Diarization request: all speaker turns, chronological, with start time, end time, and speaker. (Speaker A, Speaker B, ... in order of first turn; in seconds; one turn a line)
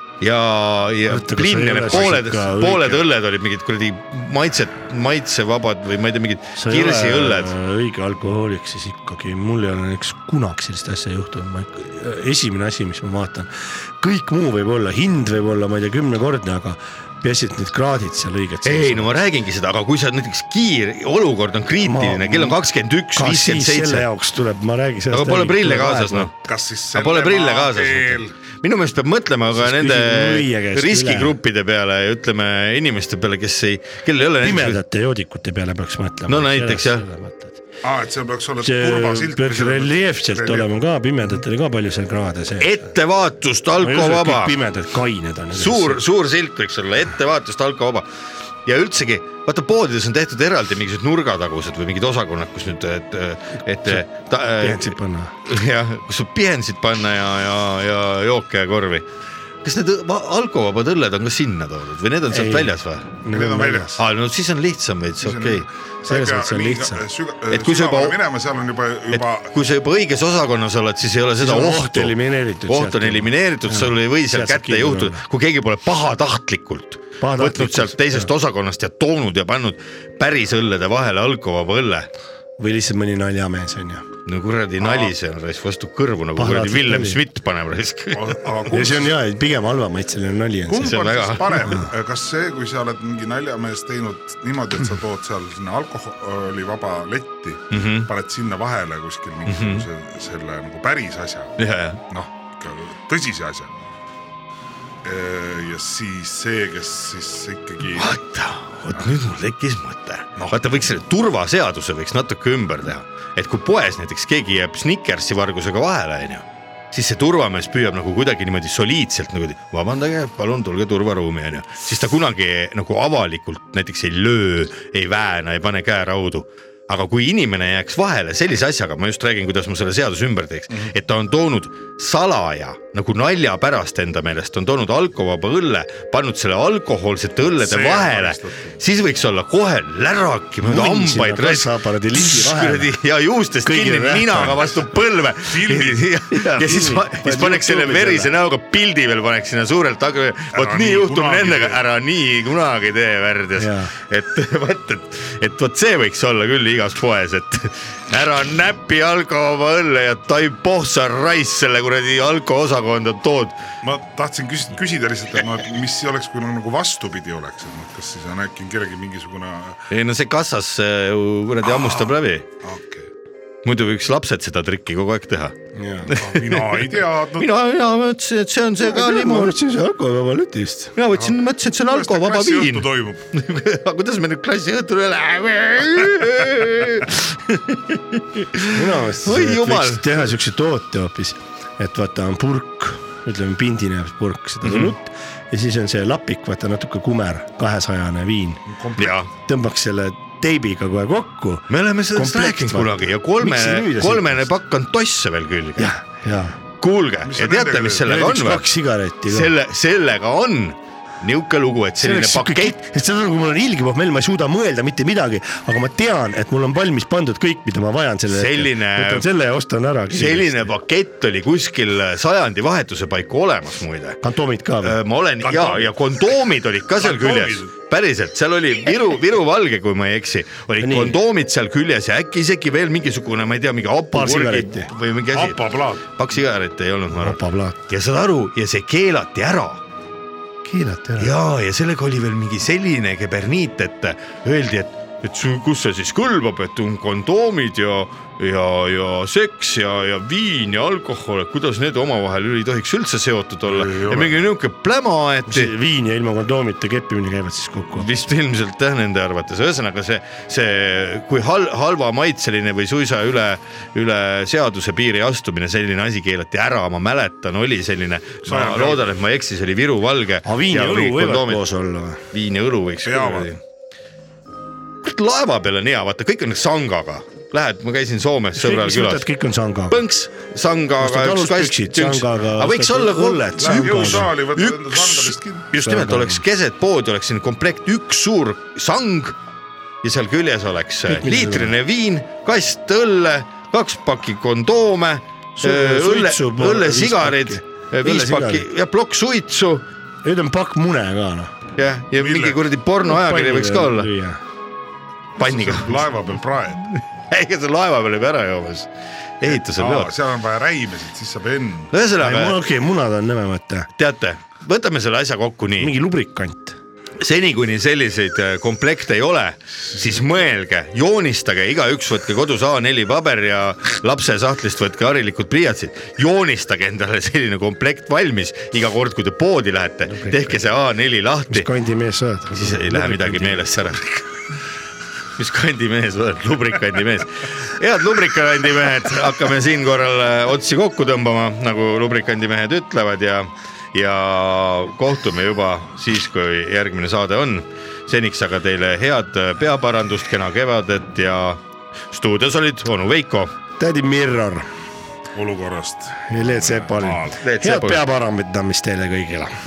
Speaker A: 0.2-7.5
Speaker B: 1.1-3.0
Speaker B: 6.5-19.2
Speaker A: 18.6-24.1
Speaker B: 21.8-22.6
Speaker B: 23.1-26.3
Speaker A: 25.1-26.3
Speaker C: 26.4-28.3
Speaker A: 26.9-34.8
Speaker B: 29.5-31.4
Speaker B: 34.4-37.6
Speaker A: 36.3-37.0
Speaker C: 37.8-40.7
Speaker B: 38.6-42.9
Speaker A: 42.6-44.6
Speaker B: 43.8-46.0
Speaker A: 45.5-48.1
Speaker A: 48.6-59.0
Speaker B: 54.6-55.3
Speaker A: 59.6-63.1
Speaker B: 62.3-64.0
Speaker C: 63.3-64.0
Speaker A: 64.0-65.7
Speaker C: 65.2-69.5
Speaker B: 66.0-67.0
Speaker A: 67.5-68.2
Speaker A: 69.1-72.1
Speaker B: 71.3-75.2
Speaker A: 72.7-82.1
Speaker B: 77.2-78.3
Speaker B: 82.6-84.1
Speaker A: 84.2-88.4
Speaker C: 84.8-85.1
Speaker B: 86.3-87.2
Speaker C: 88.1-89.1
Speaker B: 88.7-91.0
Speaker C: 90.7-101.5
Speaker A: 90.8-91.7
Speaker B: 91.5-91.9
Speaker A: 97.7-98.1
Speaker A: 99.5-99.8
Speaker A: 101.6-102.0
Speaker C: 102.1-103.7
Speaker C: 105.0-108.1
Speaker A: 108.0-163.6
Speaker C: 110.4-110.8
Speaker C: 137.6-138.8
Speaker B: 140.6-142.9
Speaker B: 143.6-144.7
Speaker C: 145.5-146.1
Speaker B: 146.5-148.3
Speaker C: 150.5-151.8
Speaker B: 153.6-153.9
Speaker C: 163.8-169.9
Speaker A: 169.9-172.4
Speaker C: 171.6-173.1
Speaker A: 173.6-179.5
Speaker B: 175.7-176.1
Speaker C: 176.1-177.5
Speaker B: 178.8-181.0
Speaker A: 180.9-190.2
Speaker C: 181.1-183.3
Speaker B: 188.7-198.6
Speaker A: 194.6-194.9
Speaker C: 198.7-199.2
Speaker A: 199.0-199.3
Speaker B: 199.4-204.5
Speaker A: 201.7-205.9
Speaker B: 205.8-206.6
Speaker A: 206.8-208.7
Speaker C: 207.2-208.2
Speaker B: 208.0-209.5
Speaker A: 209.3-212.8
Speaker B: 212.0-220.7
Speaker A: 218.3-219.3
Speaker A: 220.1-224.2
Speaker B: 224.2-225.0
Speaker A: 224.8-239.8
Speaker C: 225.4-225.9
Speaker C: 226.9-227.7
Speaker B: 230.8-231.2
Speaker B: 234.1-234.9
Speaker C: 235.3-236.0
Speaker B: 237.2-237.8
Speaker B: 240.6-241.3
Speaker A: 241.2-255.7
Speaker C: 253.7-254.3
Speaker B: 255.5-258.1
Speaker A: 257.9-271.6
Speaker C: 268.4-269.0
Speaker B: 270.4-272.2
Speaker A: 272.3-273.6
Speaker C: 273.1-273.5
Speaker A: 275.0-279.3
Speaker B: 278.5-280.0
Speaker A: 279.9-289.4
Speaker B: 281.0-284.3
Speaker C: 283.6-285.7
Speaker B: 285.8-286.4
Speaker A: 290.0-299.9
Speaker B: 291.1-291.8
Speaker B: 295.6-298.7
Speaker B: 300.2-301.6
Speaker A: 301.8-304.1
Speaker C: 302.2-302.6
Speaker B: 303.0-304.4
Speaker C: 305.4-306.8
Speaker A: 305.4-306.1
Speaker A: 306.9-310.1
Speaker C: 309.4-311.9
Speaker A: 311.9-312.6
Speaker B: 312.2-313.9
Speaker A: 314.0-315.9
Speaker B: 315.8-316.8
Speaker A: 317.2-331.7
Speaker B: 330.1-330.8
Speaker B: 331.5-333.9
Speaker A: 332.5-334.3
Speaker A: 335.4-353.5
Speaker B: 353.8-354.7
Speaker C: 355.3-357.4
Speaker B: 356.2-359.5
Speaker A: 357.4-358.0